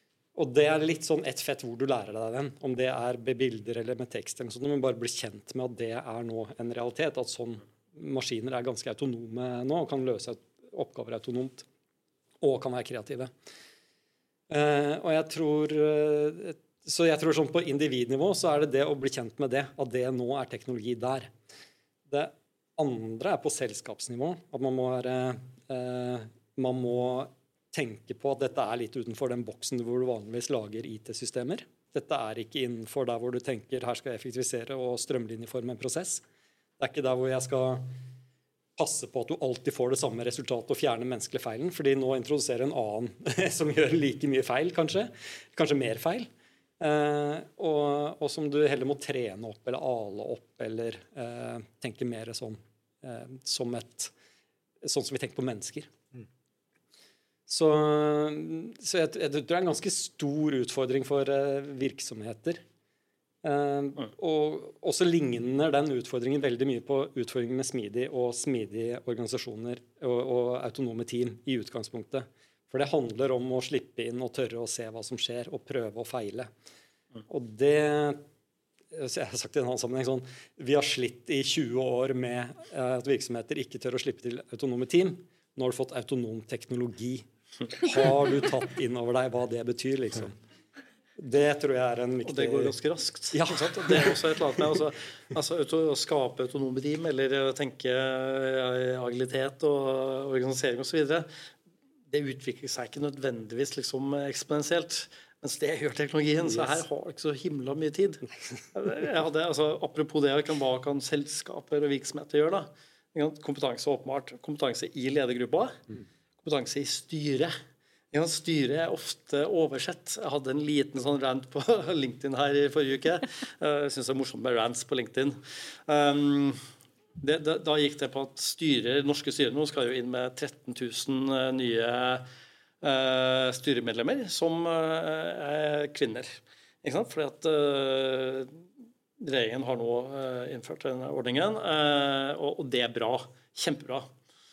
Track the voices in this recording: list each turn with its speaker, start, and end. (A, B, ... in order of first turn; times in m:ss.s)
0:00.4-0:11.7 A
0:12.4-0:13.3 A
0:14.5-0:21.3 A
0:22.1-0:36.2 A
0:36.8-0:37.9 A
0:38.8-0:46.3 A
0:46.8-0:54.1 A
0:54.8-0:55.9 A
0:57.5-1:02.6 A
1:03.4-1:16.5 A
1:17.3-1:18.2 A
1:18.9-1:30.4 A
1:31.2-1:32.8 A
1:32.2-1:41.3 B
1:33.3-1:34.1 A
1:42.1-1:55.8 B
1:46.4-1:46.8 A
1:56.4-1:57.5 B
1:58.1-2:06.6 B
2:07.2-2:12.3 B
2:12.8-2:18.6 B
2:19.2-2:24.1 B